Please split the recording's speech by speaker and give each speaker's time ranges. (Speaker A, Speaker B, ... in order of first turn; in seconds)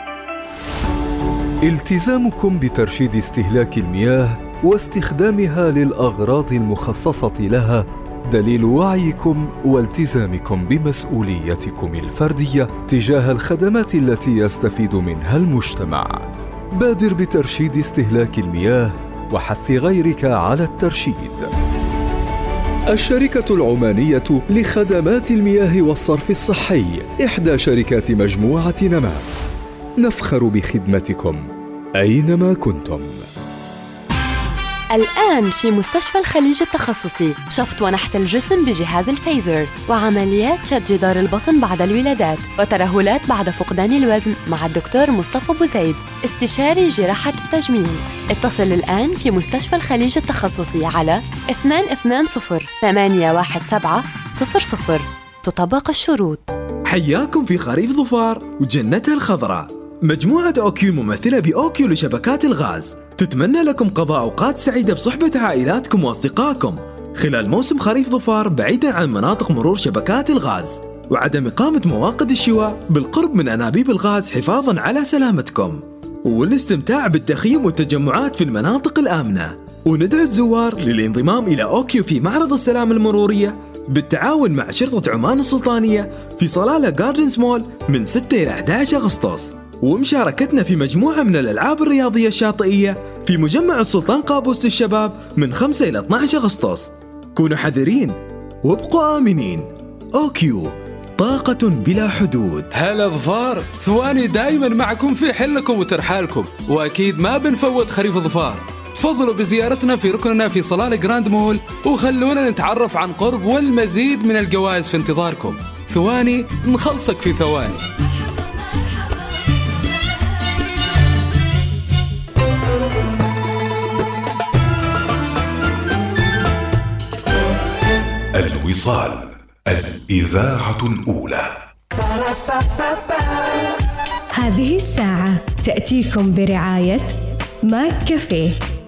Speaker A: 1.6-21.5, 22.9-29.2, 30.0-33.3
Speaker B: 34.9-56.5
Speaker C: 56.9-102.7
Speaker D: 102.7-117.8
Speaker E: 128.4-131.5
Speaker F: 134.3-137.1, 137.7-138.6